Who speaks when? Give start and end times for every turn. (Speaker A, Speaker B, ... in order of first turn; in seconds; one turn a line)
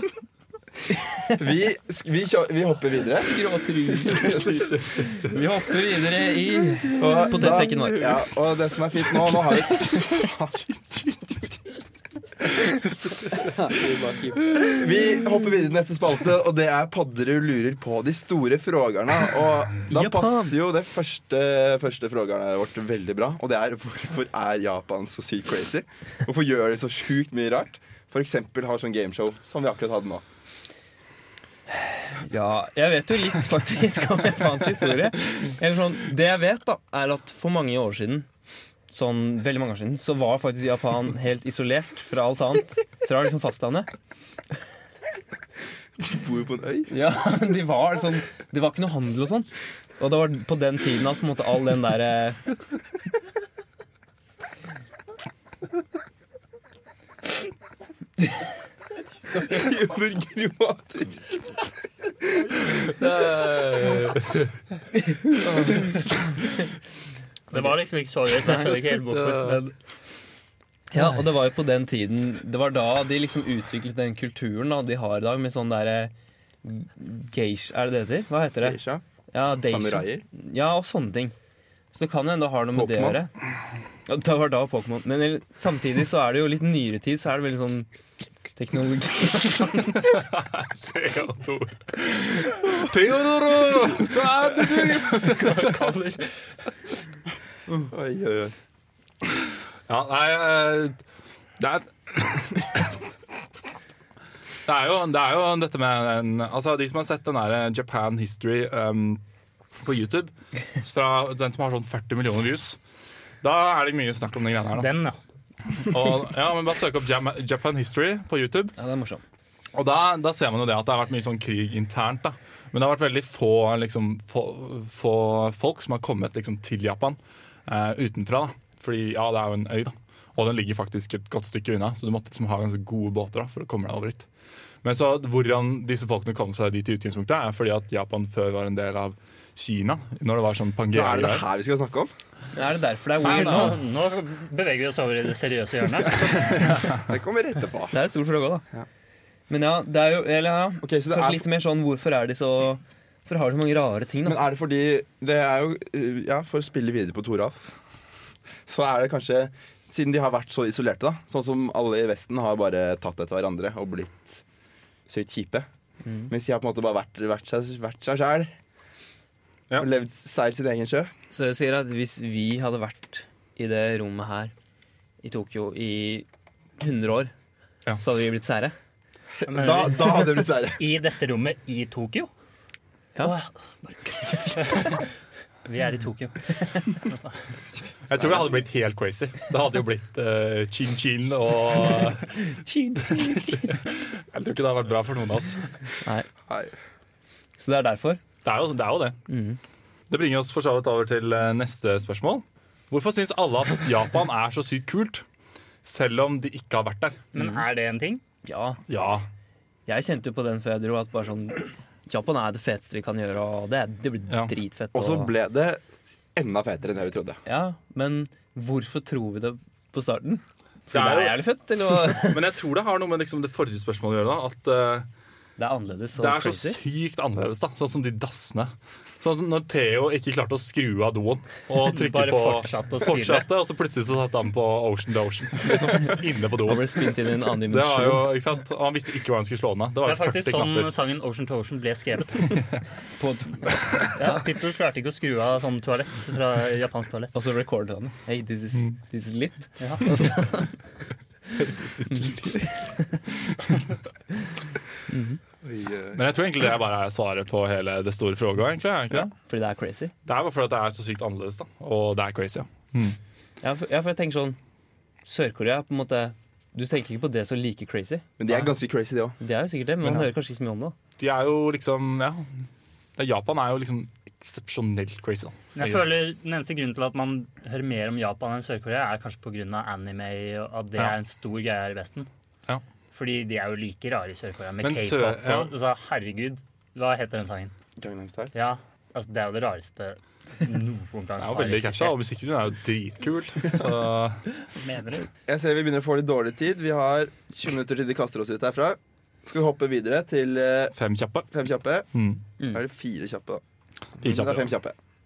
Speaker A: 1.3-3.4
Speaker B: 3.2-8.2
Speaker A: 4.1-4.4
Speaker A: 7.0-10.6
Speaker B: 13.4-14.7
Speaker A: 14.6-30.2
Speaker B: 19.9-20.6
Speaker B: 31.7-38.3
Speaker B: 38.9-43.9
Speaker A: 46.0-46.9
Speaker B: 46.9-49.5
Speaker B: 50.0-52.4
Speaker A: 59.3-61.2
Speaker C: 63.2-64.3
Speaker B: 65.0-66.0
Speaker D: 67.5-69.6
Speaker B: 68.4-69.7
Speaker B: 70.9-76.1
Speaker B: 76.6-78.8
Speaker A: 78.6-79.0
Speaker B: 79.3-81.3
Speaker A: 79.5-80.2
Speaker B: 81.9-83.3
Speaker A: 82.7-83.2
Speaker B: 84.0-87.9
Speaker B: 88.5-90.0
Speaker C: 90.0-96.0
Speaker D: 95.1-96.2
Speaker A: 97.7-98.5
Speaker C: 99.9-101.0
Speaker C: 101.6-102.9
Speaker C: 104.6-109.2
Speaker C: 109.8-112.8
Speaker C: 113.4-114.9
Speaker D: 114.8-115.2
Speaker C: 115.8-118.7
Speaker B: 118.8-119.2
Speaker C: 119.7-134.2
Speaker C: 134.8-141.4
Speaker A: 140.9-142.1
Speaker B: 142.5-143.8
Speaker C: 143.2-143.8
Speaker D: 143.2-146.5
Speaker A: 146.5-147.9
Speaker B: 147.9-148.6
Speaker B: 149.5-154.4
Speaker A: 150.8-151.4
Speaker A: 154.2-157.7
Speaker A: 158.7-164.4
Speaker A: 165.1-165.7
Speaker B: 166.0-166.3
Speaker A: 166.3-168.5
Speaker A: 169.8-171.1
Speaker B: 171.3-174.5
Speaker B: 175.2-176.2
Speaker B: 176.8-177.3
Speaker B: 178.0-178.7
Speaker A: 179.4-180.8
Speaker D: 179.4-182.3
Speaker D: 183.2-183.5
Speaker B: 184.1-184.9
Speaker D: 184.6-185.0
Speaker D: 185.7-187.2
Speaker C: 188.1-192.4
Speaker A: 188.1-188.5
Speaker B: 192.4-193.7
Speaker C: 193.1-195.6
Speaker A: 196.5-196.7
Speaker B: 197.6-198.2
Speaker C: 198.4-199.2
Speaker B: 199.3-199.6
Speaker C: 200.1-205.2
Speaker C: 205.8-207.2
Speaker D: 207.3-208.2
Speaker B: 207.3-207.6
Speaker B: 208.4-208.8
Speaker C: 208.9-209.2
Speaker B: 209.9-215.3
Speaker A: 214.9-215.8
Speaker A: 216.3-217.4
Speaker B: 217.4-222.5
Speaker C: 220.9-221.4
Speaker C: 222.1-225.1
Speaker B: 225.6-226.8
Speaker C: 226.2-237.0
Speaker D: 231.8-233.5
Speaker B: 236.6-238.3
Speaker C: 237.7-240.9
Speaker D: 240.0-242.6
Speaker B: 243.2-244.4
Speaker D: 244.1-247.3
Speaker B: 247.3-250.7
Speaker C: 252.0-252.3
Speaker B: 252.1-253.1
Speaker B: 255.1-255.4
Speaker A: 255.6-256.2
Speaker C: 256.1-259.3
Speaker B: 259.4-260.1
Speaker C: 260.2-263.2
Speaker B: 263.6-264.6
Speaker B: 265.2-268.3
Speaker A: 268.4-269.4
Speaker B: 269.4-270.9
Speaker C: 270.0-270.3
Speaker C: 271.2-272.5
Speaker C: 273.2-276.2
Speaker D: 275.7-282.3
Speaker D: 283.1-287.7
Speaker C: 284.8-285.7
Speaker A: 288.0-288.5
Speaker D: 288.5-292.2
Speaker C: 291.4-294.5
Speaker D: 294.8-295.2
Speaker A: 295.4-300.9
Speaker C: 300.9-301.5
Speaker A: 301.5-302.1
Speaker C: 302.1-302.4
Speaker A: 302.7-303.6
Speaker A: 304.2-304.9
Speaker C: 304.2-304.7